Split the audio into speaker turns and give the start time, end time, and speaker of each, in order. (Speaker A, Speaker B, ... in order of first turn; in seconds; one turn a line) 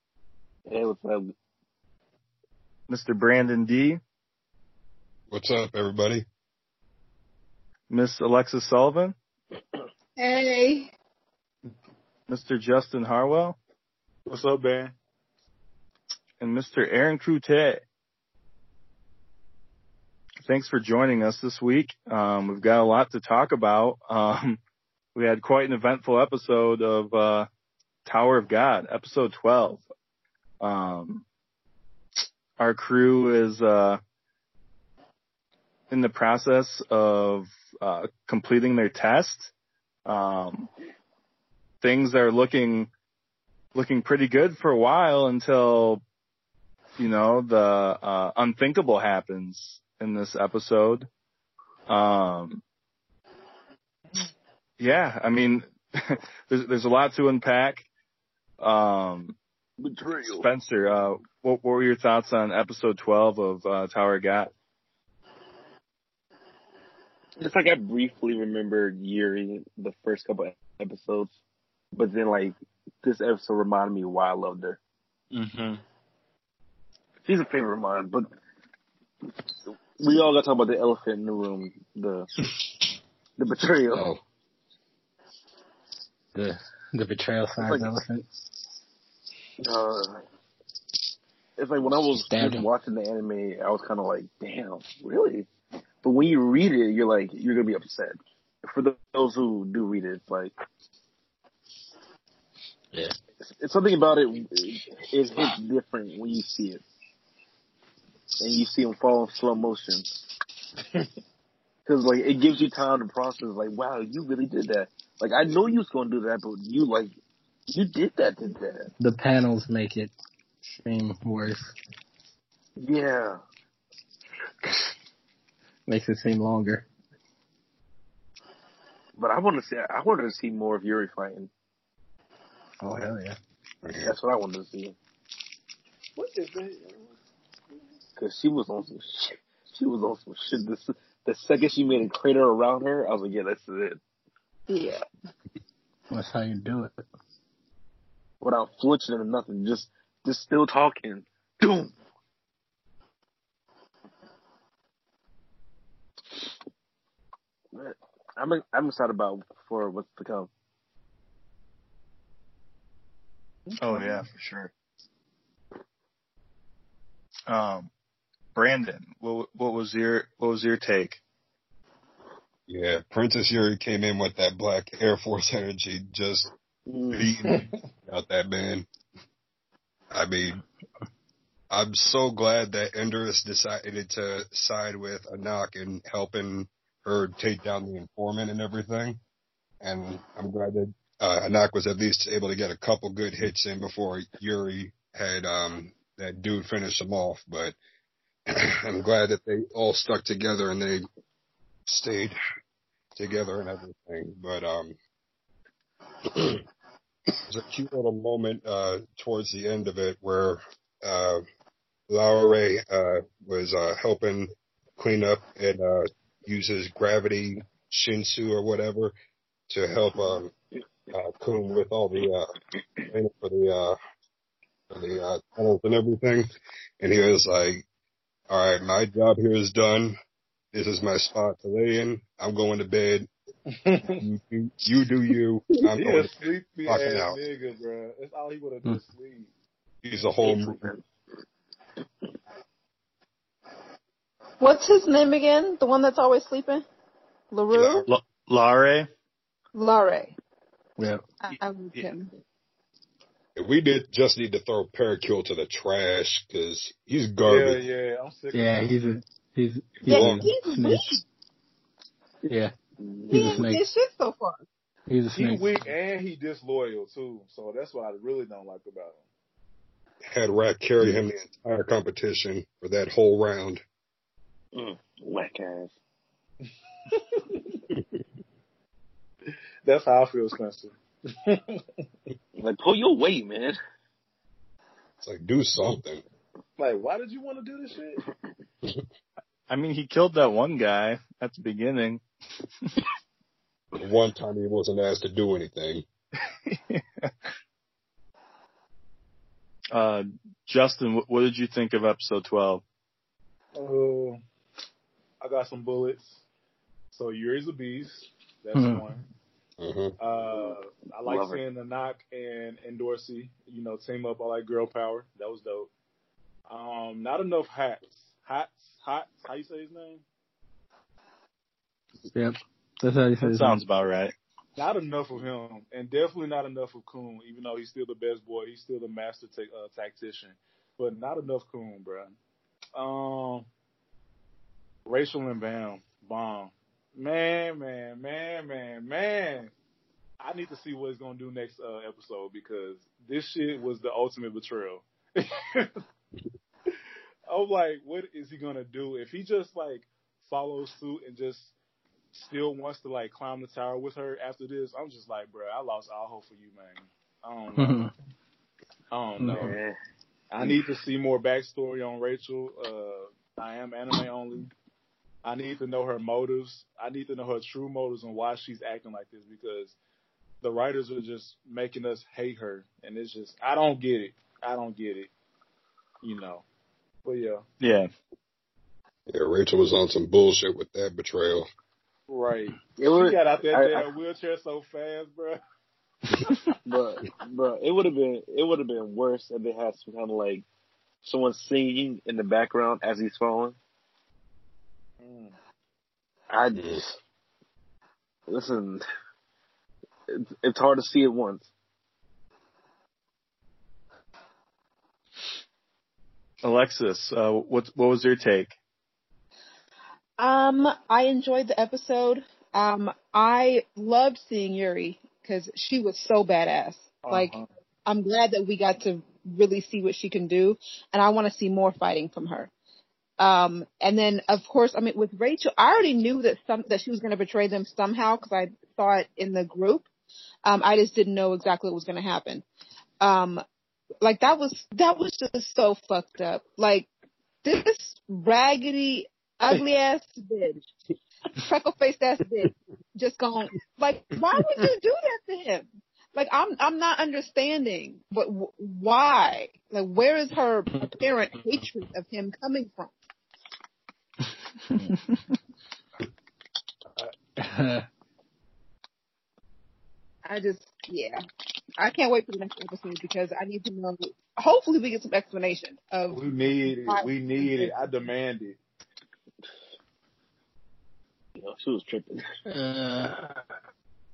Speaker A: 0.7-1.3
Speaker B: 2.9-4.0
Speaker C: 5.3-6.3
Speaker B: 7.9-9.2
Speaker D: 10.2-10.9
Speaker B: 12.3-13.6
Speaker E: 14.3-14.9
Speaker B: 16.4-17.8
Speaker B: 20.4-24.6
Speaker B: 25.1-27.5
Speaker B: 28.1-29.8
Speaker B: 30.6-31.2
Speaker B: 32.6-34.0
Speaker B: 35.9-39.5
Speaker B: 40.1-40.7
Speaker B: 41.8-42.9
Speaker B: 43.7-46.0
Speaker B: 47.0-51.1
Speaker B: 51.9-52.6
Speaker B: 54.8-57.9
Speaker B: 58.6-59.4
Speaker A: 59.8-60.5
Speaker B: 60.3-64.5
Speaker A: 67.4-71.3
Speaker A: 72.0-74.8
Speaker E: 75.3-75.8
Speaker A: 77.3-78.3
Speaker A: 80.0-82.3
Speaker A: 83.4-84.1
Speaker F: 86.3-88.3
Speaker A: 87.6-87.9
Speaker A: 89.6-90.2
Speaker A: 91.6-95.5
Speaker F: 92.2-92.7
Speaker A: 96.0-100.5
Speaker A: 103.4-106.8
Speaker A: 108.4-110.1
Speaker A: 111.8-117.1
Speaker A: 117.7-118.9
Speaker F: 119.0-120.1
Speaker F: 120.7-121.8
Speaker A: 122.8-123.4
Speaker F: 125.9-126.9
Speaker A: 129.2-131.5
Speaker F: 132.8-133.4
Speaker C: 133.8-134.2
Speaker A: 134.0-135.0
Speaker E: 136.2-137.1
Speaker A: 138.2-144.0
Speaker D: 144.7-145.0
Speaker F: 146.1-147.0
Speaker A: 148.4-151.9
Speaker A: 157.7-160.5
Speaker B: 163.8-164.7
Speaker B: 167.5-167.9
Speaker B: 168.6-171.2
Speaker C: 172.7-176.5
Speaker A: 176.9-177.6
Speaker C: 177.1-178.9
Speaker C: 180.1-180.6
Speaker C: 181.7-189.2
Speaker C: 189.8-197.8
Speaker C: 198.5-201.1
Speaker C: 201.9-202.4
Speaker C: 203.2-205.0
Speaker C: 206.3-206.6
Speaker C: 207.5-211.4
Speaker C: 212.1-219.1
Speaker C: 219.7-220.5
Speaker C: 221.1-222.5
Speaker C: 223.1-224.0
Speaker C: 224.9-226.5
Speaker C: 227.0-227.8
Speaker C: 228.5-230.2
Speaker C: 230.7-233.3
Speaker E: 233.7-234.2
Speaker C: 234.2-237.4
Speaker E: 235.9-239.5
Speaker C: 240.0-240.8
Speaker A: 240.4-241.0
Speaker D: 244.6-246.8
Speaker D: 247.5-248.0
Speaker C: 247.7-248.1
Speaker B: 248.1-249.1
Speaker D: 249.7-250.3
Speaker F: 251.0-251.2
Speaker D: 251.4-252.3
Speaker C: 253.6-257.8
Speaker E: 257.4-258.9
Speaker F: 258.5-261.2
Speaker C: 260.1-260.5
Speaker D: 260.1-261.2
Speaker F: 262.5-262.7
Speaker A: 263.0-263.6
Speaker F: 263.3-263.9
Speaker D: 263.3-264.6
Speaker F: 265.1-265.7
Speaker E: 265.4-269.2
Speaker C: 270.3-273.8
Speaker A: 274.7-275.9
Speaker E: 279.9-281.8
Speaker A: 282.6-283.8
Speaker C: 285.2-286.2
Speaker E: 286.8-288.2
Speaker B: 289.7-292.2
Speaker C: 294.0-296.1
Speaker B: 296.7-297.3
Speaker B: 299.9-302.8
Speaker E: 303.8-304.4
Speaker E: 305.4-306.4
Speaker E: 307.1-309.2
Speaker F: 308.8-309.1
Speaker C: 309.8-310.1
Speaker E: 310.2-315.9
Speaker A: 311.2-311.6
Speaker E: 316.7-320.2
Speaker F: 322.3-323.8
Speaker B: 323.4-324.3
Speaker E: 324.8-332.4
Speaker E: 332.9-333.7
Speaker E: 335.1-339.7
Speaker E: 340.4-346.0
Speaker E: 347.5-351.7
Speaker E: 352.3-358.0
Speaker F: 357.8-358.1
Speaker E: 359.1-359.7
Speaker F: 359.4-359.7
Speaker A: 359.5-360.0
Speaker E: 360.5-364.7
Speaker E: 365.4-369.9
Speaker E: 370.6-375.3
Speaker E: 376.2-376.6
Speaker E: 377.2-377.6
Speaker B: 377.8-378.1
Speaker C: 379.3-381.7
Speaker E: 382.3-385.6
Speaker A: 383.0-384.1
Speaker A: 386.9-390.7
Speaker A: 391.2-393.8
Speaker E: 395.2-395.5
Speaker A: 396.5-397.2
Speaker A: 398.5-399.0
Speaker A: 400.3-401.7
Speaker B: 406.6-408.8
Speaker D: 410.4-417.5
Speaker E: 417.2-417.6
Speaker D: 418.1-422.7
Speaker D: 423.4-430.1
Speaker D: 430.6-432.6
Speaker D: 433.2-433.6
Speaker D: 434.2-437.1
Speaker D: 437.6-440.8
Speaker D: 441.6-453.1
Speaker F: 454.9-455.2
Speaker B: 455.1-455.4
Speaker F: 457.2-458.1
Speaker D: 460.5-461.4
Speaker D: 462.0-466.4
Speaker E: 466.3-468.8
Speaker D: 467.1-467.9
Speaker A: 471.6-472.4
Speaker F: 472.7-473.6